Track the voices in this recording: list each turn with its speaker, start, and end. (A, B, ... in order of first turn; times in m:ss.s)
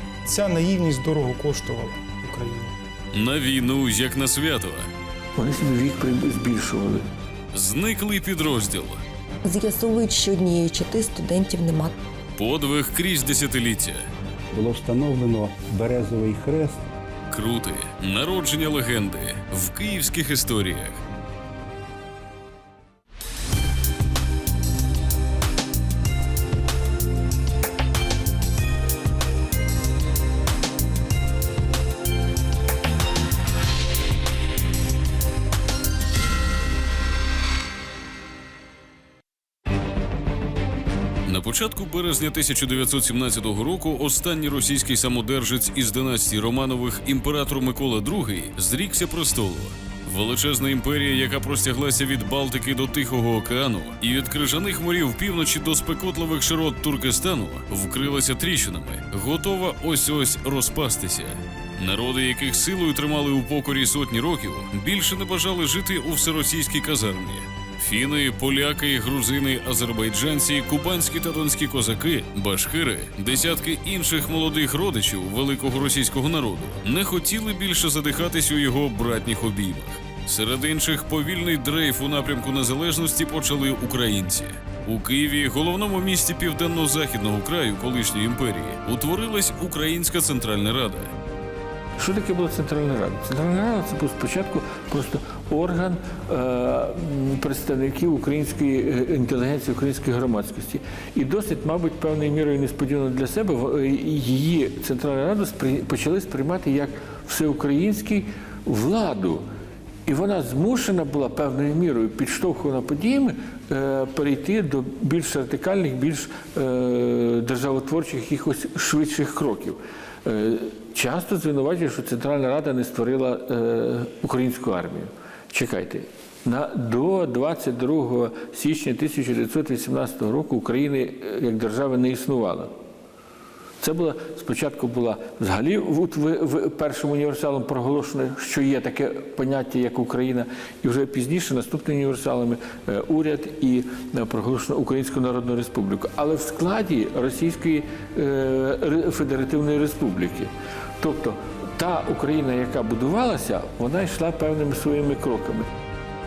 0:00.2-0:02.8 A
0:03.1-0:04.9 B
0:05.4-0:07.0 C
0:07.5-0:09.0 B
0:09.4-0:11.9 D
0:12.4-0:14.0 B
0:14.5-0:16.9 E
0:17.3-0:21.0 B
0:41.2-1:31.1 B
1:32.0-1:49.4 C
1:50.0-2:12.7 C
2:13.8-2:35.7 C